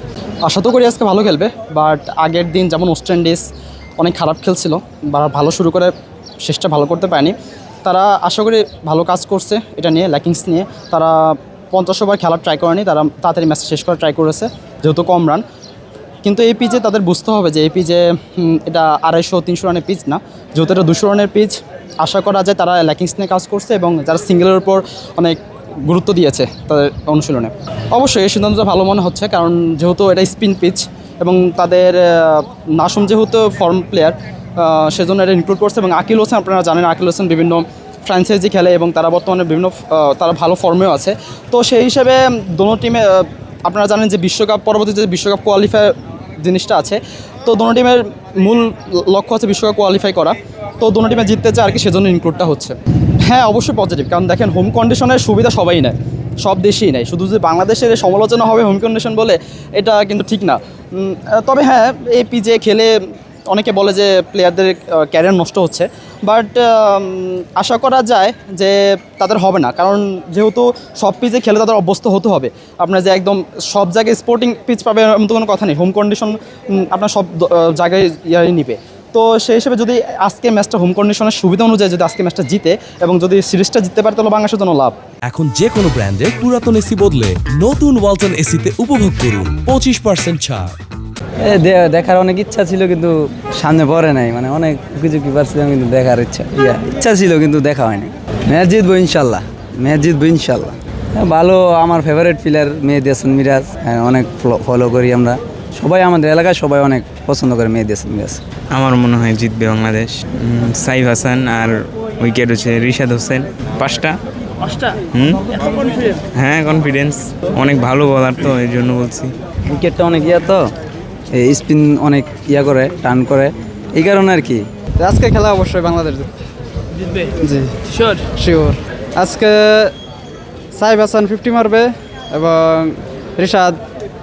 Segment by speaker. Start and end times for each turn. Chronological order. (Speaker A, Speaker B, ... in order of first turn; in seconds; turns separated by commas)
Speaker A: 0.4-3.4, Speaker A: 4.0-15.4, Speaker A: 16.2-62.9, Speaker A: 63.5-85.0, Speaker B: 85.3-90.7, Speaker C: 91.4-108.4, Speaker D: 108.7-114.2, Speaker D: 115.1-119.3, Speaker C: 119.7-120.7, Speaker C: 121.3-124.6, Speaker E: 125.1-126.2, Speaker E: 127.5-129.9, Speaker E: 130.7-133.7